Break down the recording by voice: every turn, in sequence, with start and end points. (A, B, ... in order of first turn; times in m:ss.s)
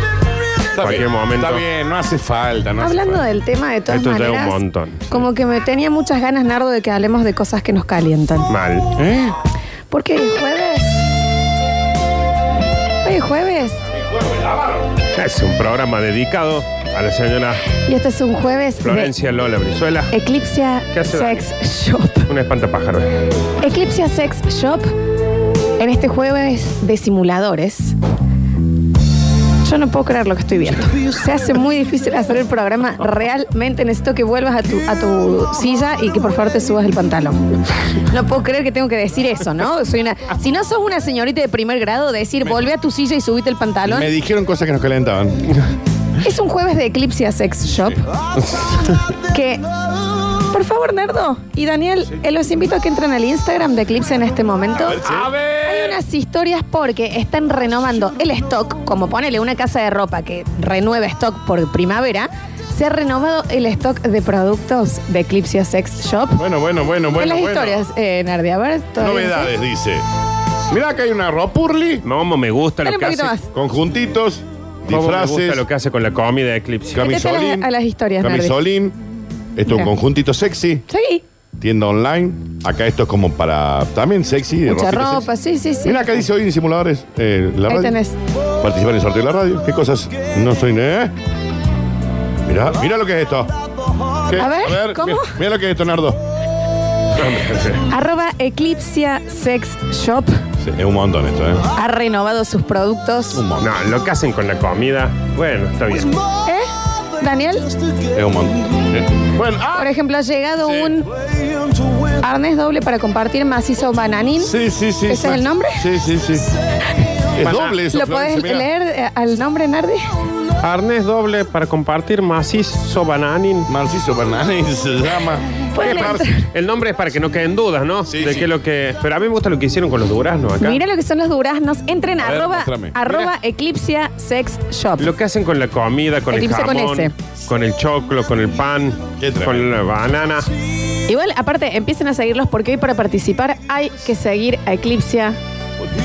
0:00.7-0:03.2 A
0:00.8-0:01.6 B
0:02.8-0:04.6 C
0:03.9-0:05.2 B
0:05.1-0:08.5 C
0:08.5-0:08.9 B
0:09.0-0:09.3 A
0:09.9-0:11.0 C
0:13.0-0:13.8 C
0:13.9-0:14.9 A
0:15.1-0:17.6 B
0:17.9-0:19.1 C
0:18.8-0:20.1 B
0:20.1-0:22.3 C
0:20.9-0:21.4 B
0:22.3-0:23.2 B
0:23.6-0:24.9 C
0:25.8-0:27.9 C
0:29.6-0:37.4 C
0:38.1-0:44.1 C
0:43.8-0:45.4 A
0:46.2-0:48.0 C
0:49.3-0:49.6 C
0:50.5-0:55.0 C
0:54.8-0:55.4 A
0:55.0-0:55.6 B
0:55.6-1:06.4 C
1:06.4-1:07.8 A
1:07.2-1:09.5 C
1:09.0-1:10.0 A
1:10.7-1:12.0 A
1:12.0-1:13.3 B
1:12.8-1:13.5 C
1:13.5-1:15.6 A
1:14.9-1:17.0 B
1:16.9-1:17.7 A
1:17.0-1:18.5 C
1:18.2-1:19.0 A
1:19.6-1:20.8 A
1:20.9-1:21.2 C
1:21.6-1:25.2 A
1:24.7-1:26.2 C
1:25.8-1:28.0 A
1:27.7-1:28.2 C
1:28.6-1:31.1 A
1:32.4-1:33.5 A
1:34.2-1:36.2 A
1:34.3-1:35.3 C
1:37.2-1:37.8 B
1:37.9-1:40.3 C
1:40.6-1:41.6 A
1:41.8-1:43.4 C
1:43.3-1:43.8 A
1:43.6-1:46.1 B
1:46.4-1:47.7 C
1:48.1-1:49.9 A
1:49.7-1:51.1 C
1:50.6-1:51.0 A
1:52.2-1:54.5 C
1:54.4-1:56.4 A
1:55.1-1:55.8 C
1:57.4-1:58.7 A
1:57.4-2:00.0 C
2:00.6-2:03.7 B
2:03.7-2:06.3 A
2:05.7-2:06.4 C
2:06.5-2:10.8 B
2:08.1-2:08.5 A
2:10.6-2:15.1 C
2:12.2-2:13.2 A
2:15.0-2:20.4 B
2:16.3-2:17.1 C
2:19.2-2:19.7 A
2:21.1-2:25.4 C